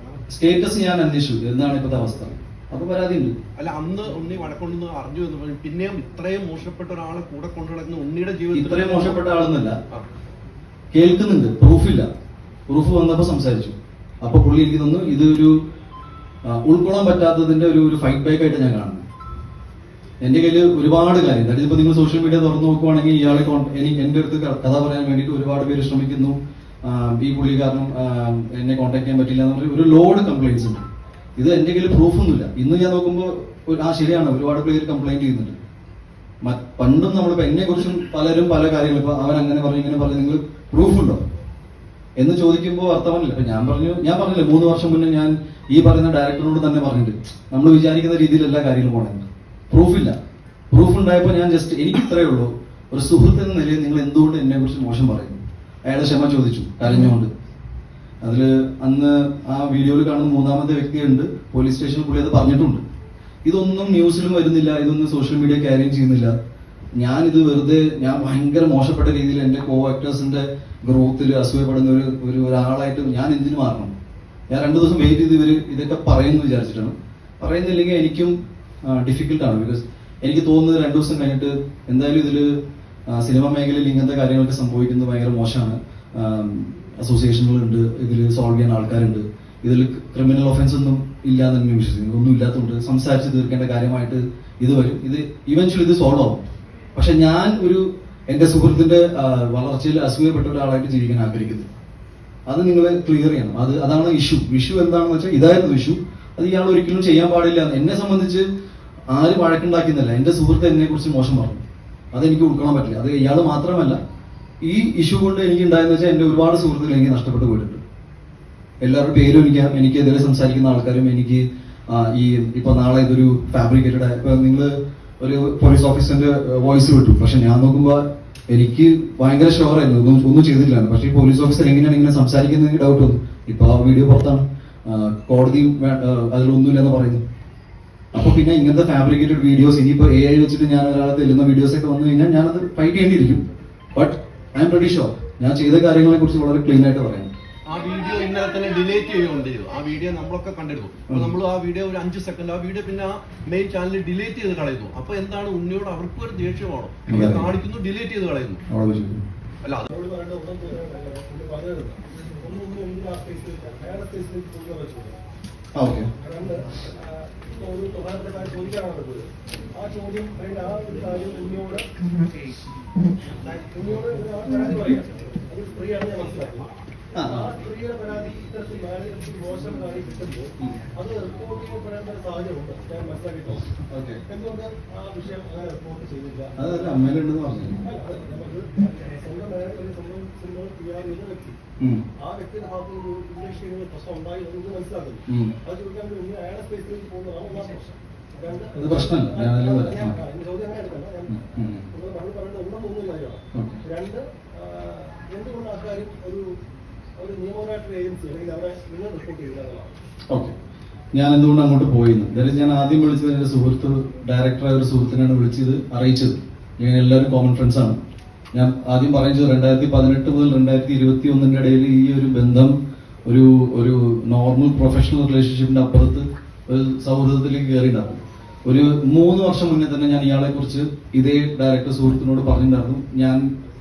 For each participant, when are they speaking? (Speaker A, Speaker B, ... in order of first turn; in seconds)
Speaker A: 0.3-3.3, 8.5-9.8, 10.9-12.1, 12.7-15.5, 16.4-19.0, 20.2-30.8, 31.4-35.6, 36.4-41.2, 42.2-50.1, 50.7-57.3, 58.2-62.8, 63.4-66.3, 67.0-73.9, 74.5-78.3, 78.8-82.5, 83.1-96.4, 96.9-101.7, 102.5-108.4, 109.1-114.0, 114.6-117.8, 118.8-137.2, 138.1-143.4, 143.9-147.3, 157.1-157.5, 158.7-159.2, 165.7-166.1, 177.1-177.5, 183.9-184.2, 186.6-187.8, 191.8-192.0, 195.3-195.5, 198.8-200.2, 201.3-201.8, 203.5-203.8, 210.3-210.5, 211.1-218.0, 218.5-222.7, 223.2-233.4
Speaker B: 3.6-9.2, 147.7-158.6, 159.6-159.9
Speaker C: 159.9-165.2, 166.2-169.2, 169.8-171.8, 173.4-176.7, 177.2-183.7, 184.3-186.7, 187.8-191.6, 192.2-206.4, 207.2-209.9